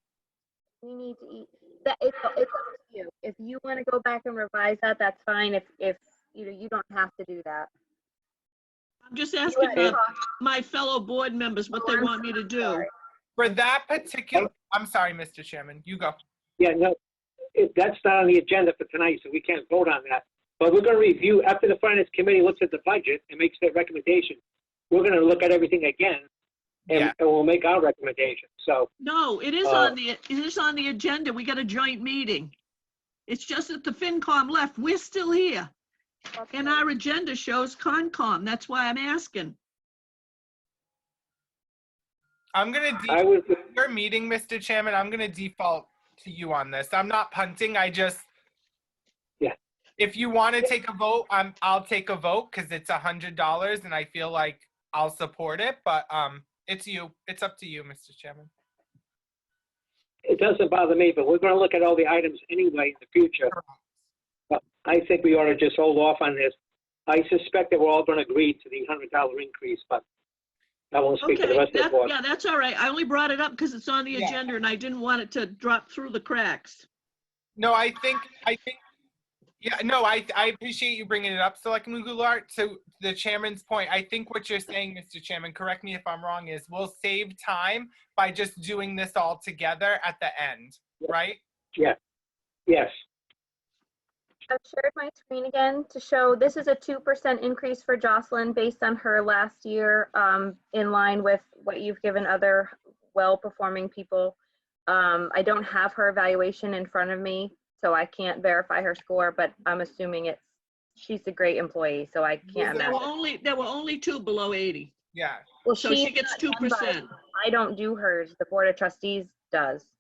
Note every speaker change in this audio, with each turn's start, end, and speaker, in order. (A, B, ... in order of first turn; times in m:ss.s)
0:00.8-0:07.7 A
0:09.0-0:12.9 B
0:09.5-0:10.2 A
0:11.7-0:12.9 A
0:13.4-0:16.2 C
0:16.6-0:17.0 D
0:17.6-0:24.4 D
0:24.9-0:26.2 D
0:26.9-0:27.1 C
0:26.9-0:28.9 D
0:29.0-0:32.6 B
0:29.6-0:30.0 D
0:33.3-0:35.7 B
0:36.3-0:36.9 A
0:36.5-0:39.6 B
0:42.6-0:48.3 C
0:43.1-0:43.6 D
0:50.0-0:58.5 C
1:00.2-1:03.5 D
1:03.5-1:03.9 C
1:04.5-1:06.5 D
1:07.1-1:10.0 D
1:10.9-1:12.1 D
1:11.2-1:16.8 B
1:17.6-1:18.8 C
1:19.6-1:31.4 C
1:34.5-1:44.4 A
1:44.9-1:50.4 A
1:51.0-1:53.0 A
1:52.5-1:54.9 B
1:52.7-1:53.0 C
1:55.1-1:55.4 C
1:55.6-1:59.9 A
1:55.8-1:57.1 B